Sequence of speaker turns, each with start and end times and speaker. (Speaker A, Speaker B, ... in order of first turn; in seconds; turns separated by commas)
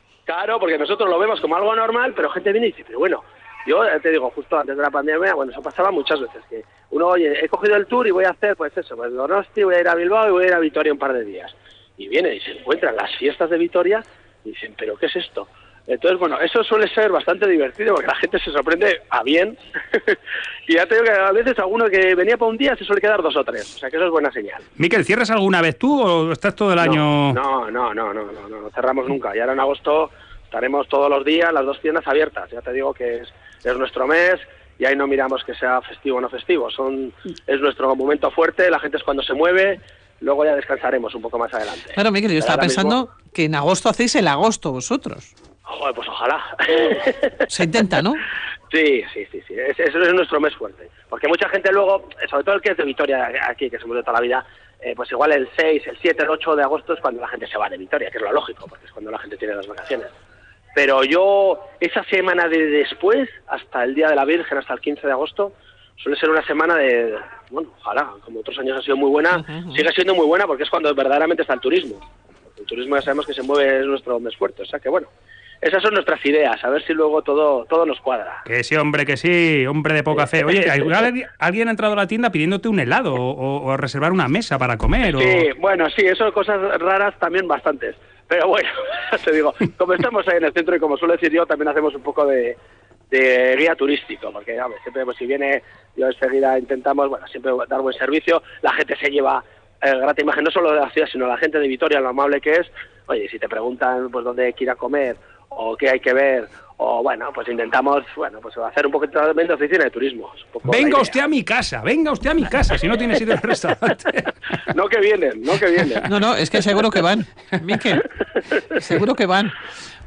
Speaker A: 0.3-24.6, Speaker B: 24.8-27.4, Speaker A: 26.8-43.0, Speaker C: 41.9-45.3, Speaker A: 45.7-47.5, Speaker C: 47.5-48.2, Speaker A: 48.7-60.1, Speaker A: 60.8-72.0, Speaker C: 69.4-69.8, Speaker A: 72.6-75.1, Speaker A: 75.6-78.4, Speaker B: 78.5-85.5, Speaker A: 85.0-92.6, Speaker A: 93.1-111.2, Speaker B: 110.7-114.3, Speaker A: 114.7-116.1, Speaker C: 116.1-118.1, Speaker C: 118.7-119.6